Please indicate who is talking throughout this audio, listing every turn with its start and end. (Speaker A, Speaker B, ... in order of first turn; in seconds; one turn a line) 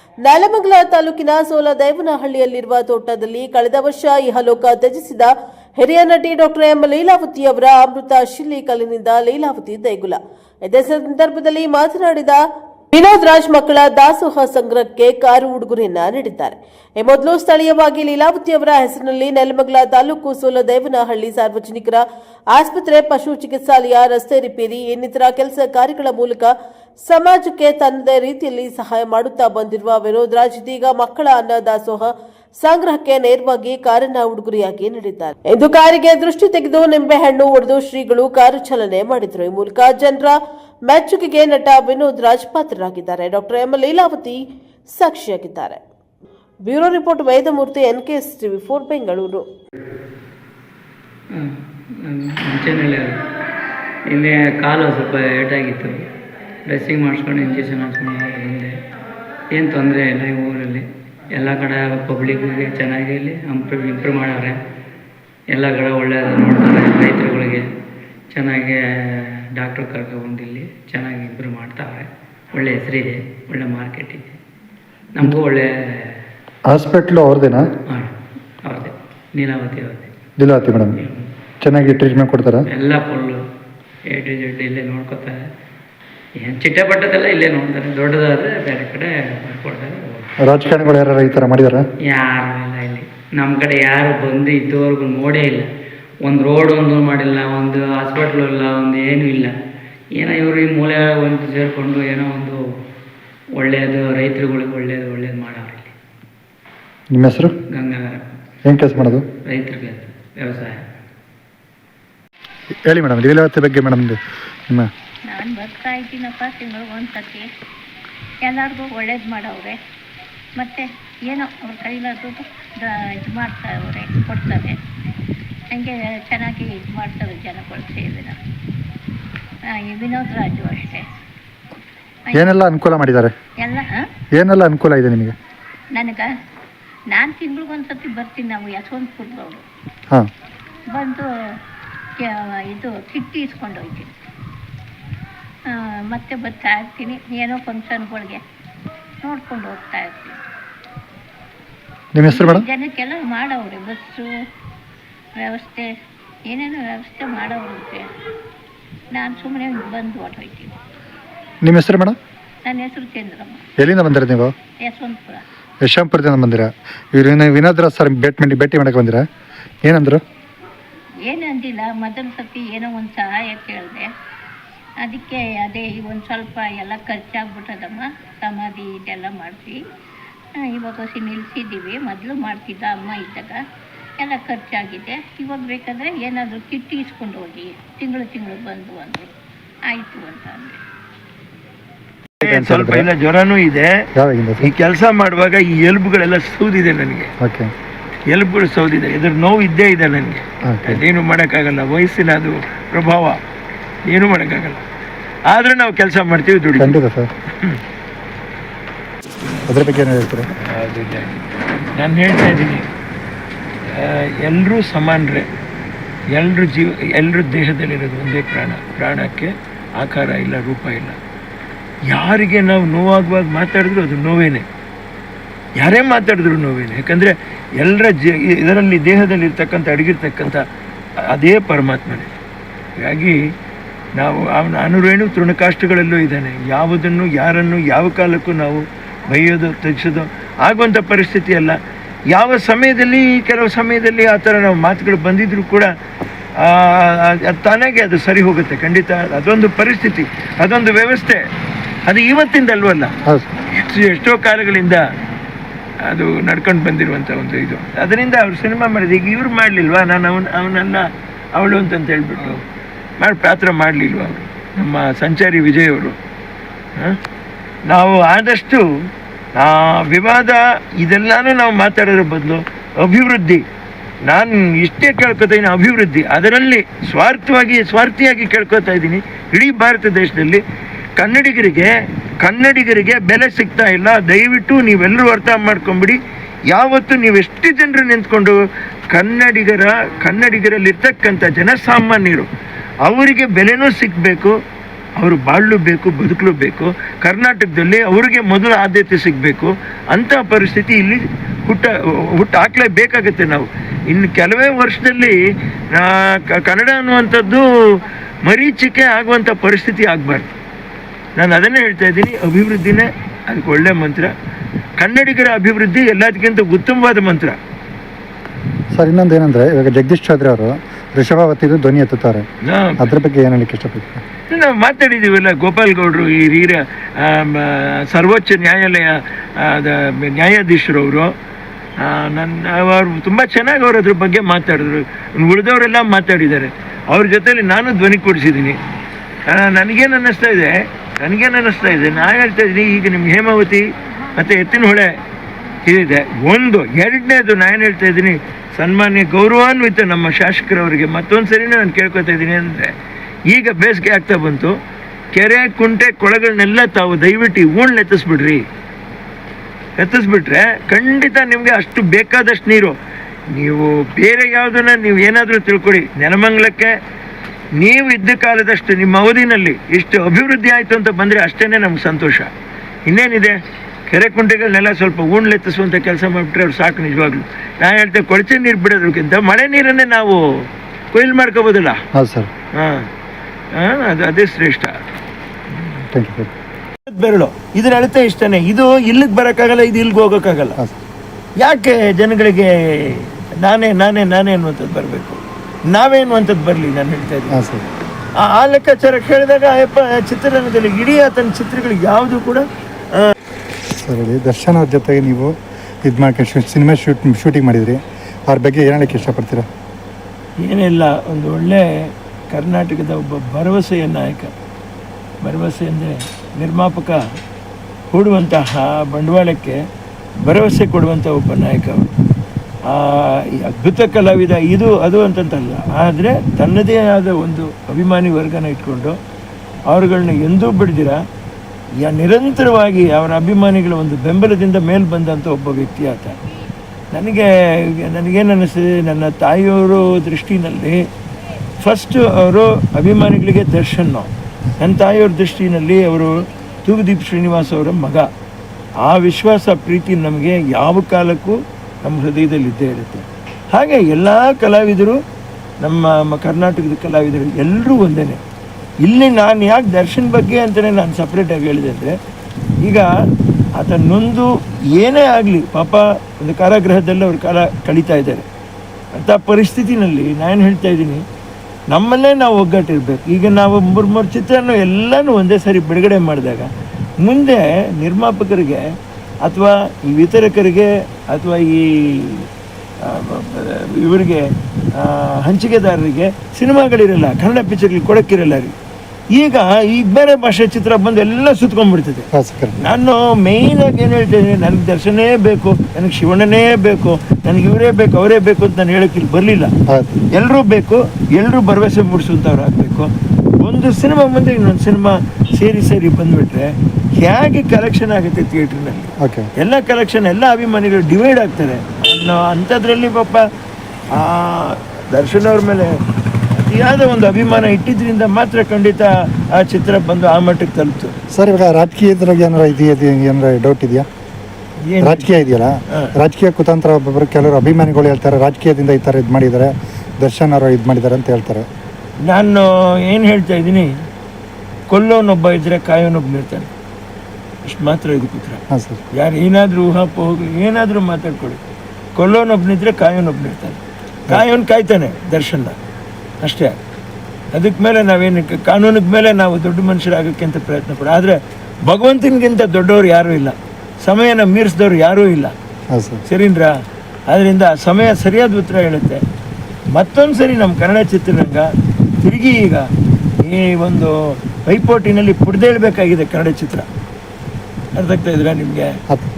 Speaker A: 0.2-12.4
Speaker A: 12.9-45.8
Speaker A: 46.7-49.5
Speaker B: 52.1-53.2
Speaker B: 54.1-56.0
Speaker B: 56.7-58.8
Speaker B: 59.5-64.6
Speaker B: 65.5-67.7
Speaker B: 68.3-74.4
Speaker B: 75.2-76.1
Speaker C: 76.7-77.6
Speaker B: 78.7-80.1
Speaker C: 80.4-81.0
Speaker C: 81.6-82.6
Speaker B: 82.7-83.4
Speaker B: 84.1-85.4
Speaker B: 86.4-90.3
Speaker C: 90.4-91.8
Speaker B: 92.1-95.7
Speaker B: 96.2-99.5
Speaker B: 100.2-102.6
Speaker B: 103.6-105.9
Speaker C: 107.1-107.5
Speaker B: 107.8-108.3
Speaker C: 108.7-109.2
Speaker B: 109.5-110.8
Speaker C: 112.9-114.9
Speaker D: 115.3-117.5
Speaker D: 118.4-119.8
Speaker D: 120.6-124.8
Speaker D: 125.7-128.4
Speaker D: 129.7-131.1
Speaker D: 132.3-132.7
Speaker C: 132.3-133.3
Speaker D: 133.6-133.9
Speaker C: 134.3-135.3
Speaker D: 135.9-136.3
Speaker D: 137.1-139.6
Speaker D: 140.9-141.3
Speaker D: 142.2-144.1
Speaker D: 145.7-148.4
Speaker D: 149.2-150.4
Speaker C: 152.1-152.7
Speaker D: 152.3-154.3
Speaker D: 155.4-155.9
Speaker D: 156.5-158.1
Speaker D: 159.1-160.8
Speaker C: 161.6-162.2
Speaker D: 162.7-163.7
Speaker C: 163.8-164.5
Speaker D: 164.8-165.4
Speaker C: 165.8-169.2
Speaker C: 169.9-170.2
Speaker D: 171.2-174.1
Speaker D: 175.0-179.8
Speaker D: 180.6-183.6
Speaker D: 184.2-189.3
Speaker D: 189.9-190.8
Speaker C: 192.4-193.1
Speaker E: 192.4-194.1
Speaker C: 194.2-194.7
Speaker E: 194.6-197.3
Speaker C: 197.4-197.7
Speaker E: 198.3-203.4
Speaker C: 200.6-201.0
Speaker E: 204.1-204.8
Speaker E: 205.5-207.0
Speaker C: 206.8-207.3
Speaker C: 209.7-210.5
Speaker E: 210.7-211.4
Speaker E: 211.9-212.9
Speaker E: 213.9-215.5
Speaker E: 216.3-221.2
Speaker E: 222.1-224.7
Speaker E: 225.8-230.6
Speaker E: 231.2-232.3
Speaker E: 233.0-233.4
Speaker E: 234.2-241.8
Speaker E: 242.3-245.9
Speaker E: 246.6-251.4
Speaker E: 252.1-253.1
Speaker E: 253.7-255.0
Speaker E: 256.1-262.6
Speaker E: 263.2-266.2
Speaker E: 267.9-268.8
Speaker E: 269.6-273.6
Speaker E: 274.3-280.6
Speaker E: 281.2-288.6
Speaker E: 289.1-292.5
Speaker E: 293.1-294.5
Speaker E: 295.2-305.4
Speaker E: 305.9-307.7
Speaker E: 308.5-310.5
Speaker E: 311.4-314.3
Speaker E: 315.0-317.6
Speaker C: 318.9-322.5
Speaker E: 322.6-323.1
Speaker C: 323.0-324.2
Speaker E: 324.5-331.3
Speaker E: 332.0-338.8
Speaker E: 339.5-345.2
Speaker E: 345.9-352.9
Speaker E: 353.5-354.7
Speaker E: 355.3-358.6
Speaker E: 360.0-362.9
Speaker E: 363.5-367.0
Speaker E: 367.8-372.5
Speaker E: 373.1-380.4
Speaker E: 381.1-382.0
Speaker C: 382.1-382.5
Speaker E: 382.8-383.1
Speaker E: 383.8-384.9
Speaker C: 386.1-386.5
Speaker E: 387.1-390.8
Speaker E: 391.6-395.4
Speaker E: 395.9-397.6
Speaker C: 397.5-397.9
Speaker E: 398.4-402.6
Speaker C: 403.9-405.5
Speaker C: 406.1-409.7
Speaker E: 410.6-414.5
Speaker E: 415.4-417.2
Speaker E: 418.1-419.8
Speaker E: 420.4-422.1
Speaker E: 422.9-429.2
Speaker E: 429.9-431.2
Speaker E: 432.0-436.4
Speaker E: 437.1-441.0
Speaker E: 441.8-448.3
Speaker E: 449.0-455.2
Speaker E: 455.8-458.4
Speaker E: 459.1-462.1
Speaker E: 462.8-463.1
Speaker E: 463.8-468.5
Speaker E: 469.1-471.2
Speaker E: 471.9-476.7
Speaker E: 477.2-478.9
Speaker E: 479.4-482.5
Speaker E: 483.0-488.7
Speaker E: 489.3-492.3
Speaker C: 492.3-492.8
Speaker E: 492.8-499.7
Speaker C: 499.9-500.2
Speaker E: 500.3-513.4
Speaker C: 509.2-509.5
Speaker E: 514.1-515.9
Speaker E: 516.5-521.1
Speaker C: 521.3-524.1
Speaker E: 524.8-525.4
Speaker C: 525.0-531.7
Speaker E: 532.2-533.9
Speaker E: 534.9-536.7
Speaker E: 537.6-538.6
Speaker C: 538.7-539.0
Speaker E: 539.1-541.6
Speaker E: 542.2-545.8
Speaker E: 546.4-546.8
Speaker E: 547.5-555.5
Speaker C: 555.9-556.2
Speaker E: 556.3-556.7
Speaker E: 557.3-559.2
Speaker E: 559.9-561.7
Speaker E: 562.2-562.9
Speaker E: 563.4-566.9
Speaker E: 568.0-569.0